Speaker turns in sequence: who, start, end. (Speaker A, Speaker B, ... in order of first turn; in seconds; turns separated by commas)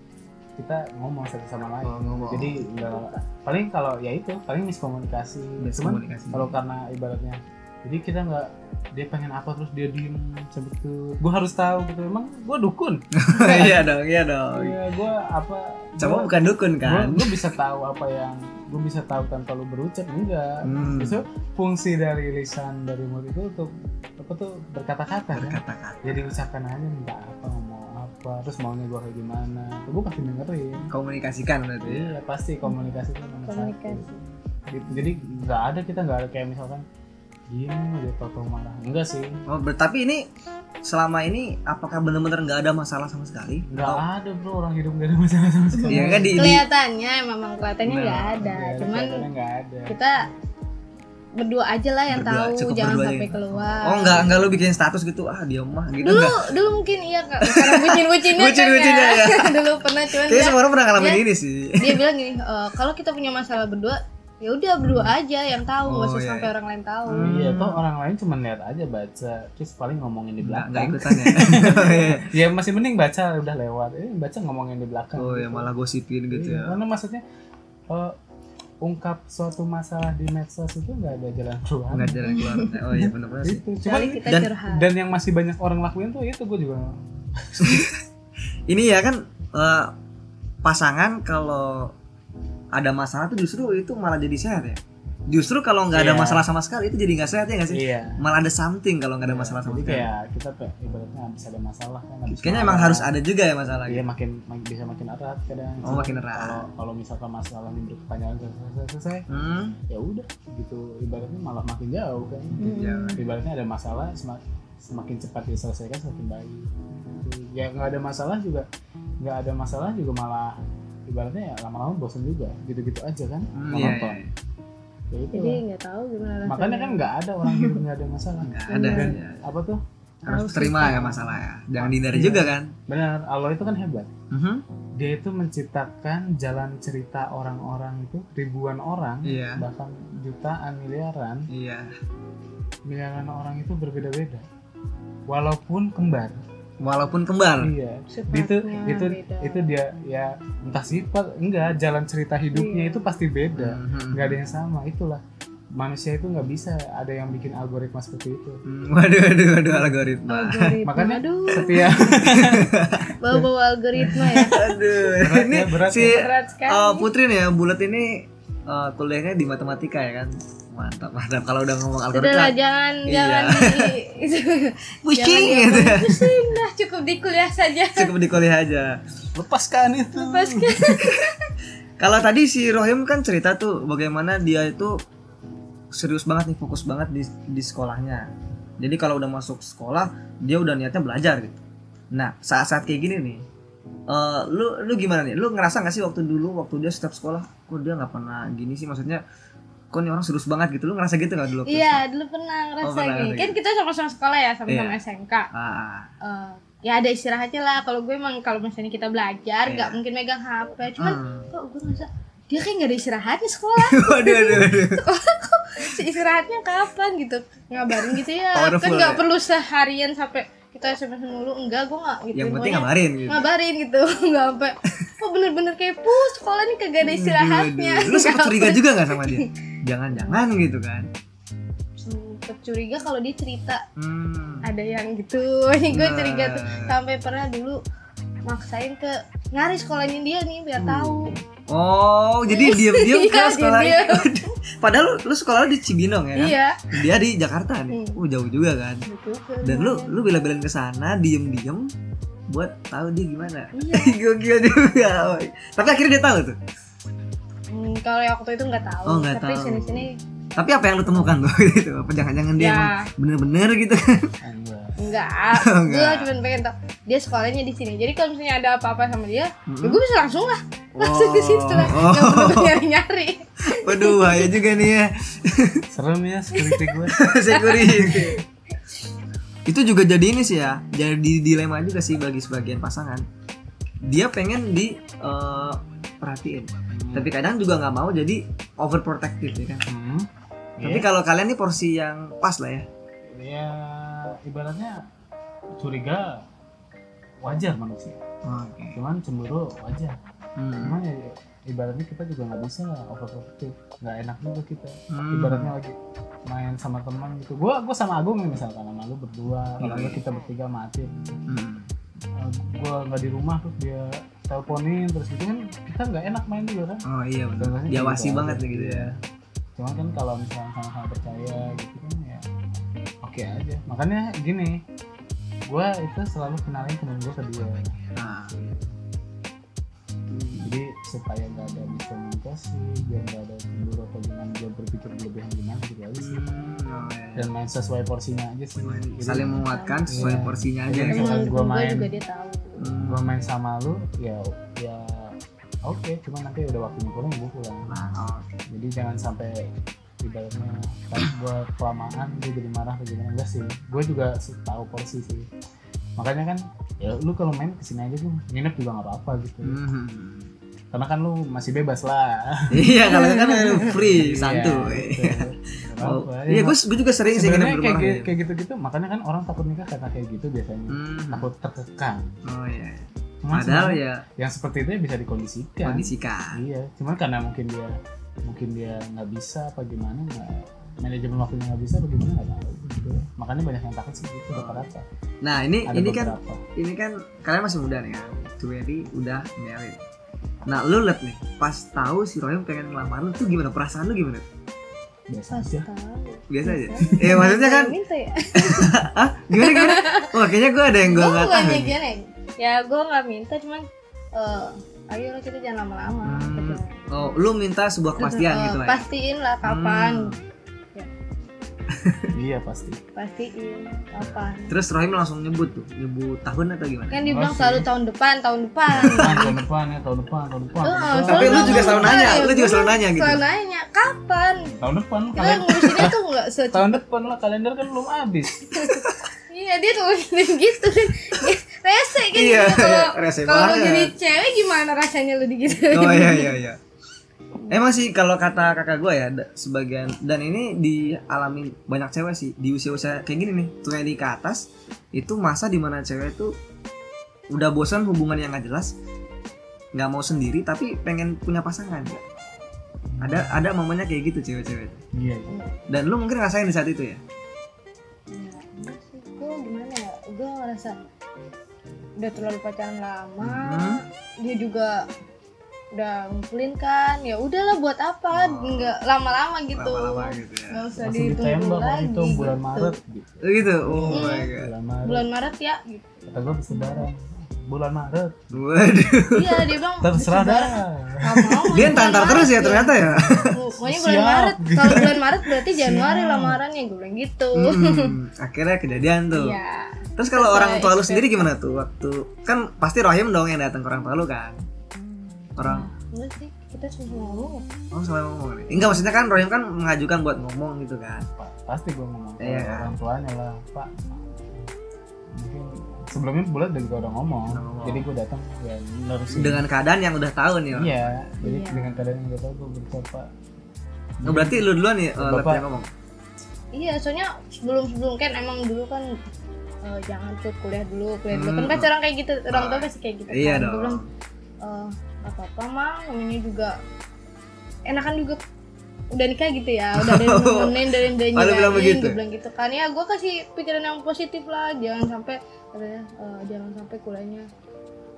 Speaker A: 0.6-13.8, Speaker B: 1.8-2.6, Speaker C: 2.8-3.2, Speaker B: 5.6-6.5, Speaker B: 13.1-14.8, Speaker A: 14.5-30.9, Speaker B: 16.0-17.4, Speaker B: 20.6-21.2, Speaker B: 25.3-26.4, Speaker B: 30.9-32.1, Speaker A: 31.8-34.1, Speaker C: 33.5-34.2, Speaker A: 34.7-36.9, Speaker A: 37.5-39.4, Speaker B: 39.5-40.3, Speaker B: 40.9-44.0, Speaker A: 43.7-46.4, Speaker B: 45.9-46.6, Speaker C: 45.9-49.2, Speaker B: 47.9-48.4, Speaker A: 48.4-50.0, Speaker C: 49.9-50.2, Speaker C: 51.4-54.3, Speaker B: 52.1-56.5, Speaker A: 54.2-54.5, Speaker C: 56.0-61.2, Speaker B: 57.4-59.6, Speaker B: 60.1-62.0, Speaker C: 61.8-67.3, Speaker B: 65.8-66.5, Speaker B: 67.1-67.8, Speaker A: 67.2-75.7, Speaker B: 70.4-72.3, Speaker B: 75.2-76.8, Speaker A: 76.3-77.2, Speaker A: 77.9-78.1, Speaker A: 78.8-82.3, Speaker B: 81.9-83.6, Speaker C: 82.3-82.8, Speaker A: 82.9-87.9, Speaker C: 83.8-84.9, Speaker B: 84.3-84.5, Speaker B: 87.6-88.0, Speaker B: 88.7-89.9, Speaker B: 90.6-91.9, Speaker B: 92.7-100.1, Speaker A: 95.9-96.4, Speaker A: 97.7-98.2, Speaker A: 99.2-103.1, Speaker B: 102.3-104.1, Speaker A: 103.9-109.3, Speaker B: 105.8-106.6, Speaker B: 109.3-109.8, Speaker A: 109.9-118.7, Speaker B: 112.6-113.2, Speaker C: 112.6-113.2, Speaker A: 119.2-120.6, Speaker A: 121.1-124.2, Speaker B: 123.5-124.3, Speaker A: 125.1-125.6, Speaker C: 125.3-127.8, Speaker A: 126.5-129.8, Speaker B: 128.4-129.4, Speaker C: 128.7-129.2, Speaker B: 130.3-132.7, Speaker C: 130.3-131.4, Speaker A: 131.8-134.1, Speaker B: 134.3-134.6, Speaker A: 135.0-141.5, Speaker B: 139.2-139.6, Speaker B: 141.5-141.9, Speaker A: 142.9-144.5, Speaker A: 145.3-146.4, Speaker B: 146.8-147.7, Speaker A: 147.6-155.2, Speaker C: 148.1-149.7, Speaker C: 152.5-153.2, Speaker B: 153.6-154.4, Speaker A: 155.8-158.6, Speaker B: 158.6-160.8, Speaker C: 160.3-162.2, Speaker A: 160.8-162.7, Speaker B: 162.1-163.1, Speaker C: 163.2-164.9, Speaker A: 164.0-164.6, Speaker B: 164.4-172.6, Speaker A: 165.2-166.2, Speaker C: 165.9-167.1, Speaker C: 172.1-178.1, Speaker B: 173.1-173.9, Speaker B: 175.0-176.4, Speaker B: 177.9-179.0, Speaker A: 179.4-180.8, Speaker C: 180.1-181.5, Speaker B: 181.0-181.3, Speaker B: 182.0-185.0, Speaker B: 185.9-188.3, Speaker B: 188.8-191.6, Speaker B: 192.1-193.4, Speaker B: 194.1-199.2, Speaker B: 199.9-202.0, Speaker C: 201.7-205.5, Speaker B: 202.8-203.6, Speaker B: 204.7-205.0, Speaker B: 205.5-206.1, Speaker C: 206.2-229.5, Speaker B: 209.7-210.0, Speaker B: 211.0-211.5, Speaker B: 213.8-215.0, Speaker B: 217.9-219.2, Speaker B: 222.3-223.5, Speaker B: 227.0-231.1, Speaker C: 230.1-230.4, Speaker C: 232.0-233.8, Speaker B: 234.0-234.6, Speaker C: 234.6-237.8, Speaker B: 235.9-236.9, Speaker C: 238.5-241.3, Speaker B: 240.8-249.1, Speaker C: 242.5-244.5, Speaker C: 246.3-247.0, Speaker C: 247.9-248.2, Speaker C: 249.1-250.3, Speaker B: 249.6-251.9, Speaker B: 252.5-256.6, Speaker C: 253.7-254.2, Speaker C: 257.7-260.1, Speaker B: 259.1-264.3, Speaker C: 262.6-263.1, Speaker A: 264.4-265.0, Speaker C: 265.0-274.5, Speaker B: 265.6-266.3, Speaker B: 269.7-270.0, Speaker B: 271.0-272.8, Speaker B: 273.7-275.9, Speaker A: 275.9-277.2, Speaker C: 276.6-277.0, Speaker B: 277.1-278.4, Speaker C: 277.5-278.4, Speaker B: 279.7-283.2, Speaker B: 284.0-289.8, Speaker A: 286.9-287.3, Speaker A: 289.9-290.3, Speaker A: 290.8-291.1, Speaker B: 290.8-292.9, Speaker A: 293.3-295.0, Speaker A: 295.8-296.4, Speaker A: 297.4-298.2, Speaker B: 298.4-299.0, Speaker A: 298.9-300.1, Speaker B: 300.6-301.0, Speaker A: 300.8-306.0, Speaker B: 305.1-305.7, Speaker A: 306.5-311.4, Speaker B: 309.8-310.2, Speaker B: 311.5-311.9, Speaker A: 312.4-317.1, Speaker B: 317.1-319.1, Speaker A: 317.6-319.1, Speaker A: 319.8-322.4, Speaker A: 323.2-324.8, Speaker A: 325.7-328.0, Speaker B: 328.1-328.6, Speaker A: 328.5-328.8, Speaker B: 330.3-330.7, Speaker A: 330.6-336.4, Speaker B: 336.2-337.5, Speaker A: 337.4-342.1, Speaker B: 338.8-341.4, Speaker C: 339.5-340.5, Speaker C: 341.1-343.0, Speaker B: 342.8-343.4, Speaker A: 343.0-347.9, Speaker B: 347.9-348.5, Speaker A: 348.7-349.6, Speaker A: 350.2-355.5, Speaker A: 356.2-359.8, Speaker B: 359.6-360.5, Speaker A: 360.9-363.2, Speaker B: 362.7-365.5, Speaker C: 363.1-363.9, Speaker A: 363.8-372.3, Speaker B: 366.0-368.3, Speaker B: 370.9-371.5, Speaker B: 372.4-374.2, Speaker A: 373.4-377.9, Speaker B: 375.8-376.6, Speaker A: 378.5-385.1, Speaker B: 384.5-384.9, Speaker B: 385.4-390.0, Speaker A: 385.9-386.6, Speaker B: 390.6-394.5, Speaker A: 395.3-395.9, Speaker C: 395.5-399.0, Speaker B: 396.5-397.9, Speaker A: 397.1-397.4, Speaker B: 398.6-402.0, Speaker C: 399.5-400.3, Speaker C: 401.0-407.4, Speaker B: 406.2-409.1, Speaker C: 408.2-410.4, Speaker B: 409.6-410.4, Speaker B: 411.9-412.3, Speaker A: 412.3-413.0, Speaker C: 413.1-414.8, Speaker B: 414.2-417.2, Speaker C: 417.1-419.6, Speaker A: 417.2-417.9, Speaker B: 418.9-419.4, Speaker A: 419.0-422.2, Speaker C: 420.8-424.7, Speaker B: 421.3-423.4, Speaker A: 424.8-426.1, Speaker C: 425.4-427.0, Speaker A: 426.7-428.9, Speaker C: 428.7-436.6, Speaker B: 432.3-434.1, Speaker B: 435.8-436.8, Speaker B: 437.7-446.5, Speaker B: 447.5-448.9, Speaker B: 449.9-452.2, Speaker A: 453.1-453.6, Speaker B: 453.2-455.0, Speaker A: 455.1-455.5, Speaker C: 455.5-455.8, Speaker B: 455.9-457.2, Speaker C: 458.3-461.0, Speaker C: 462.2-465.1, Speaker B: 463.4-464.0, Speaker C: 465.9-472.9, Speaker B: 468.3-468.9, Speaker B: 469.7-470.8, Speaker A: 471.0-475.3, Speaker B: 473.4-474.7, Speaker C: 474.1-474.5, Speaker C: 475.1-477.1, Speaker A: 476.3-478.6, Speaker B: 478.5-479.8, Speaker C: 479.3-483.0, Speaker A: 480.0-482.0, Speaker B: 481.7-483.5, Speaker A: 483.0-486.6, Speaker C: 483.5-488.1, Speaker B: 487.5-489.6, Speaker C: 489.3-491.5, Speaker B: 490.2-494.6, Speaker B: 495.6-495.9, Speaker C: 495.6-497.7, Speaker B: 497.9-501.3, Speaker A: 501.4-504.3, Speaker B: 502.4-502.9, Speaker A: 505.3-509.6, Speaker B: 507.5-508.1, Speaker B: 509.3-511.3, Speaker A: 510.7-513.3, Speaker C: 511.4-511.9, Speaker A: 514.2-515.6, Speaker B: 514.3-515.9, Speaker C: 516.7-519.1, Speaker C: 519.8-524.0, Speaker B: 521.3-521.9, Speaker B: 522.5-524.1, Speaker C: 524.6-526.8, Speaker C: 527.9-528.4, Speaker C: 529.1-537.5, Speaker B: 530.0-532.2